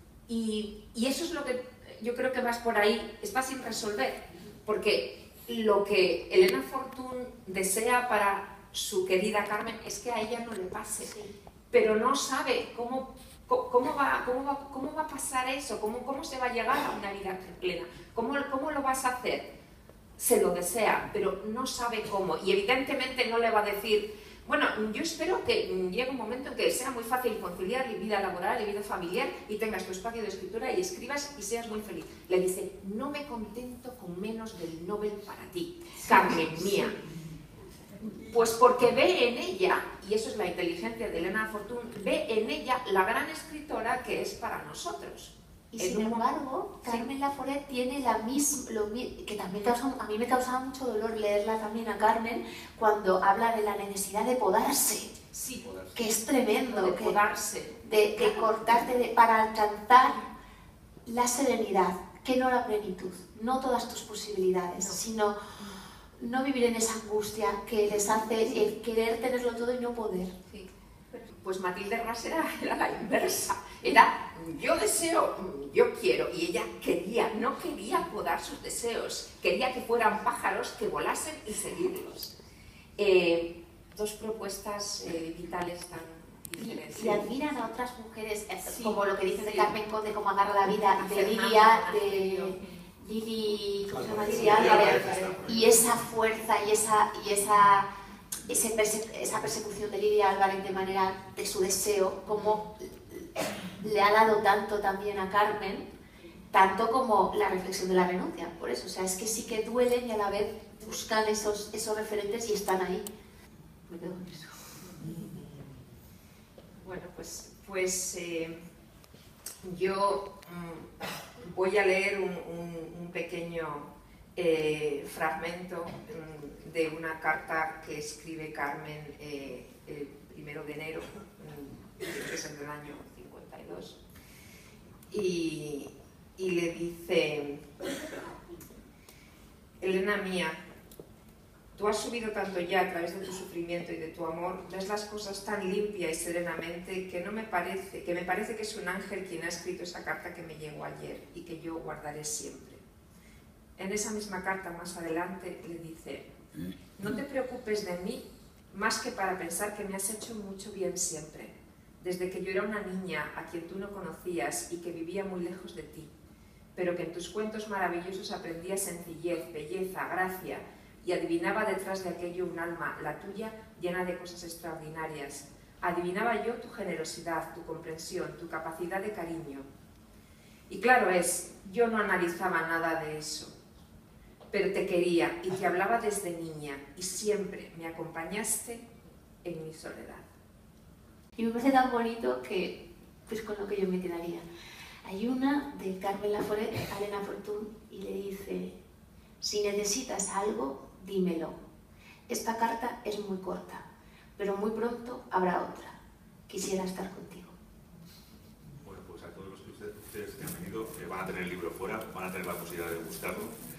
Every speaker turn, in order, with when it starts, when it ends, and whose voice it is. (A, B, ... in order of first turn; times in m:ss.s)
0:00.3-0:11.1 A
0:11.0-0:11.3 B
0:11.7-0:19.4 A
0:20.2-0:37.0 A
0:38.2-0:46.2 A
0:45.7-0:55.1 B
0:46.8-0:47.1 A
0:55.3-0:55.7 A
0:55.9-0:57.2 B
0:56.5-0:58.6 A
0:57.8-1:00.3 B
1:01.0-1:05.4 B
1:06.2-1:10.3 B
1:10.5-1:22.3 A
1:23.0-1:27.3 A
1:26.6-1:37.9 B
1:28.6-1:29.7 A
1:30.9-1:32.8 A
1:34.2-1:35.4 A
1:34.5-1:35.6 C
1:38.5-1:45.8 B
1:46.5-1:53.1 B
1:53.9-1:54.5 B
1:56.8-1:58.6 A
1:59.6-2:00.9 A
2:01.4-2:14.0 A
2:15.1-2:17.6 A
2:19.8-2:20.6 A
2:21.7-2:32.8 A
2:33.8-2:36.3 A
2:37.0-2:46.1 A
2:46.7-2:59.6 A
3:00.7-3:03.5 A
3:04.5-3:08.8 A
3:09.4-3:10.2 A
3:11.4-3:14.4 B
3:15.0-3:18.8 B
3:19.4-3:21.6 B
3:22.3-3:23.8 B
3:24.4-3:26.0 B
3:26.5-3:27.5 B
3:28.8-3:33.5 C